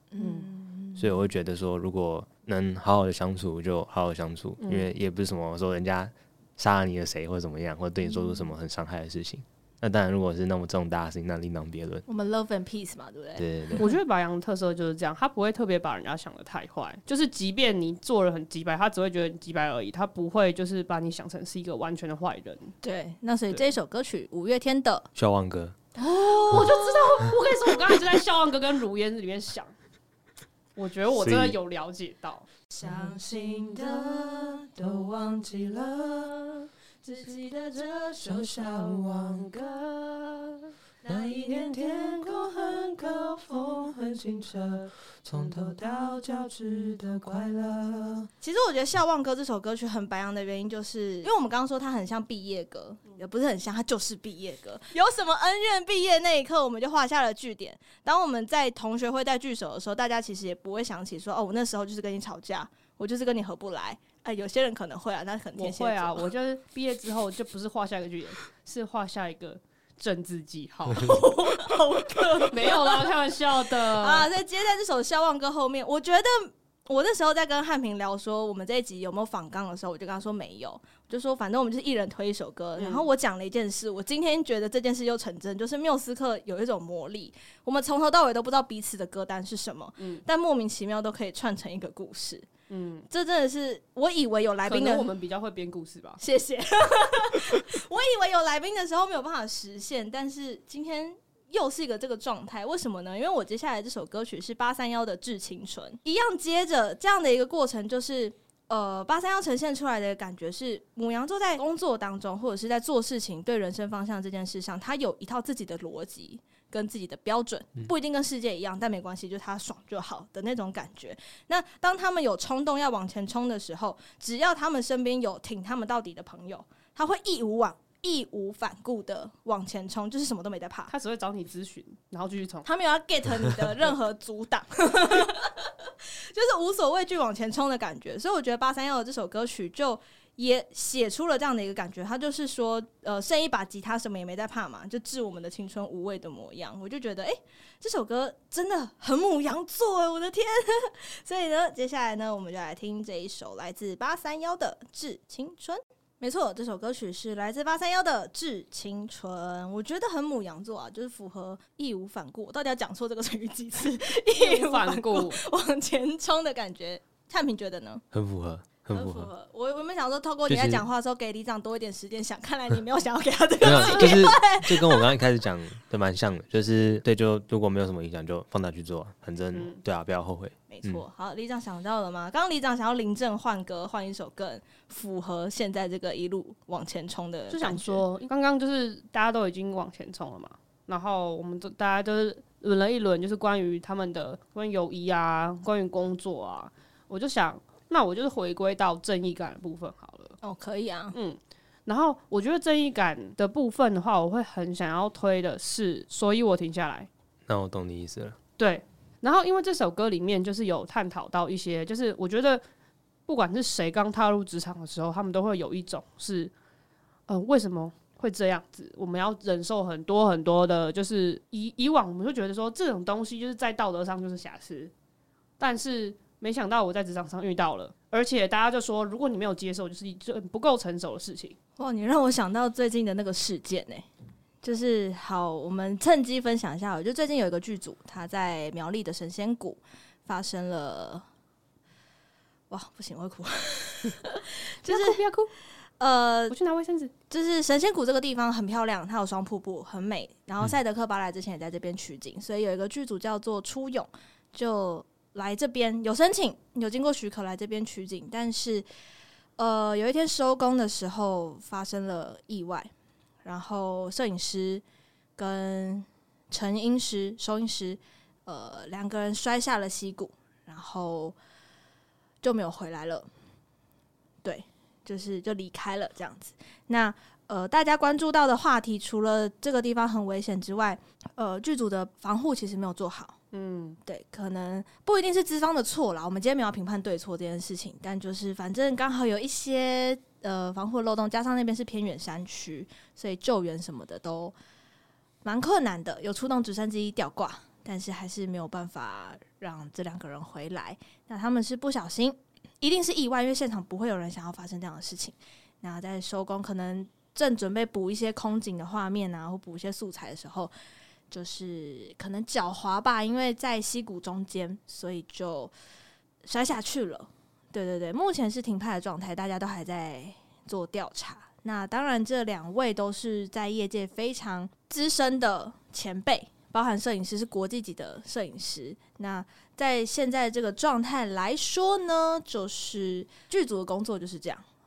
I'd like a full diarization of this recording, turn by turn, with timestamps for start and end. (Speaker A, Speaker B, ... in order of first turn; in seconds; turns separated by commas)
Speaker A: 0.1-1.1, Speaker B: 0.2-0.5, Speaker C: 1.0-12.0, Speaker B: 4.6-4.9, Speaker A: 8.1-8.4, Speaker A: 12.1-13.9, Speaker C: 13.4-13.9, Speaker B: 13.8-22.8, Speaker A: 22.8-25.1, Speaker C: 25.2-25.8, Speaker A: 26.0-27.4, Speaker B: 26.4-29.7, Speaker B: 30.8-32.5, Speaker C: 31.2-31.6, Speaker A: 32.7-35.6, Speaker C: 35.0-36.3, Speaker A: 36.2-39.2, Speaker C: 38.2-39.5, Speaker B: 39.5-40.7, Speaker A: 41.0-43.8, Speaker C: 41.1-48.3, Speaker A: 48.4-66.3, Speaker B: 65.6-71.3, Speaker A: 71.0-73.1, Speaker B: 72.4-74.3, Speaker A: 73.8-92.5, Speaker B: 82.8-83.1, Speaker B: 92.7-93.1, Speaker A: 93.1-95.1, Speaker B: 94.7-96.2, Speaker A: 96.2-130.9, Speaker B: 130.9-132.7, Speaker A: 132.7-168.0, Speaker B: 164.4-165.4, Speaker C: 168.1-169.3, Speaker A: 168.9-175.1, Speaker C: 170.5-170.8, Speaker C: 173.6-181.0, Speaker B: 173.6-174.2, Speaker B: 179.5-179.8, Speaker A: 180.7-188.0, Speaker B: 187.5-200.4, Speaker A: 200.4-201.2, Speaker B: 201.1-207.1, Speaker C: 207.5-208.4, Speaker B: 208.6-212.6, Speaker B: 213.3-216.5, Speaker B: 217.3-224.9, Speaker B: 225.6-231.6, Speaker A: 231.8-234.1, Speaker A: 234.6-241.2, Speaker A: 242.7-245.2, Speaker B: 244.9-245.5, Speaker A: 246.0-246.6, Speaker B: 246.5-247.1, Speaker A: 247.3-258.9, Speaker A: 259.6-262.9, Speaker A: 263.4-264.8, Speaker A: 265.4-271.4, Speaker A: 272.4-273.3, Speaker A: 274.4-283.4, Speaker B: 283.5-284.0, Speaker A: 284.1-294.6, Speaker A: 295.4-310.7, Speaker A: 311.3-315.7, Speaker A: 316.4-334.6